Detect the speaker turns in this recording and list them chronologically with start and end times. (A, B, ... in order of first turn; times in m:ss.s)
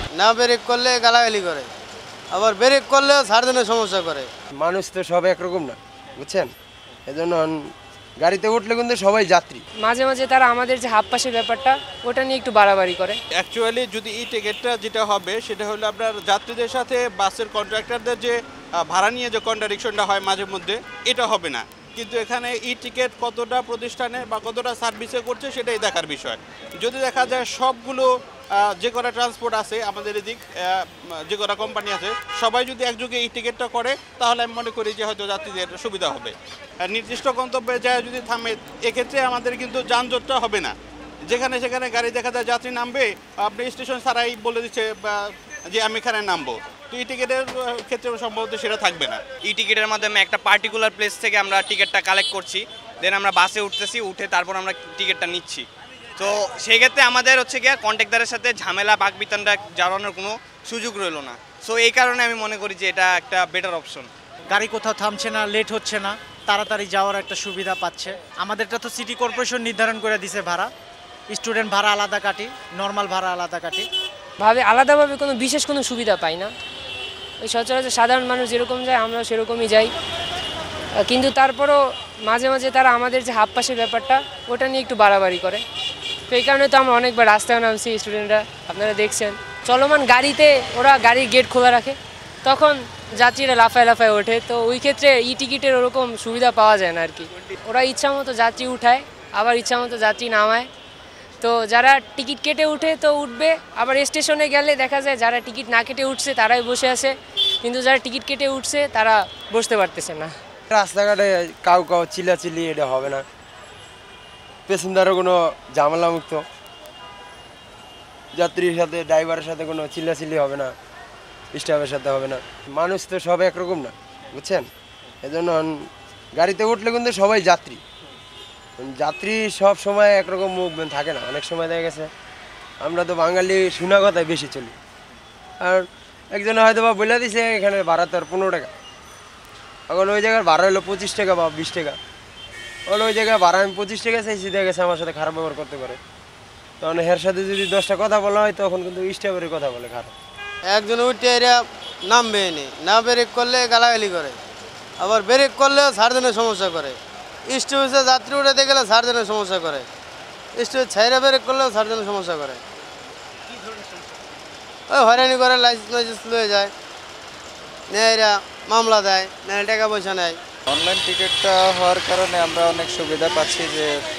0:00.2-0:01.7 A
0:02.3-0:04.3 A
0:04.6-0:06.5 B
0:07.1-0:07.6 B
0:08.2-0:09.6 B
0:09.8-0:13.2 C
0:13.4-0:18.3 D
0:18.9-0:36.3 D
0:36.8-0:40.7 D
0:41.3-0:49.2 D
0:49.5-0:55.7 E
0:56.2-1:04.1 E
1:04.5-1:10.7 F
1:11.3-1:13.9 F
1:14.4-1:16.5 C
1:17.4-1:19.9 C
1:21.0-1:25.6 C
1:26.3-1:40.7 C
1:41.4-1:50.3 C
1:50.7-1:53.2 B
1:54.7-1:56.4 B
1:58.4-2:00.7 B
2:01.5-2:04.7 B
2:05.2-2:07.8 B
2:08.8-2:12.1 B
2:12.8-2:14.8 B
2:15.6-2:18.7 B
2:19.9-2:22.0 B
2:22.9-2:26.0 B
2:26.8-2:30.1 B
2:30.7-2:34.4 A
2:35.0-2:37.0 A
2:37.5-2:39.9 A
2:40.6-2:42.6 A
2:44.9-2:46.7 A
2:47.9-2:50.4 A
2:50.7-2:53.9 G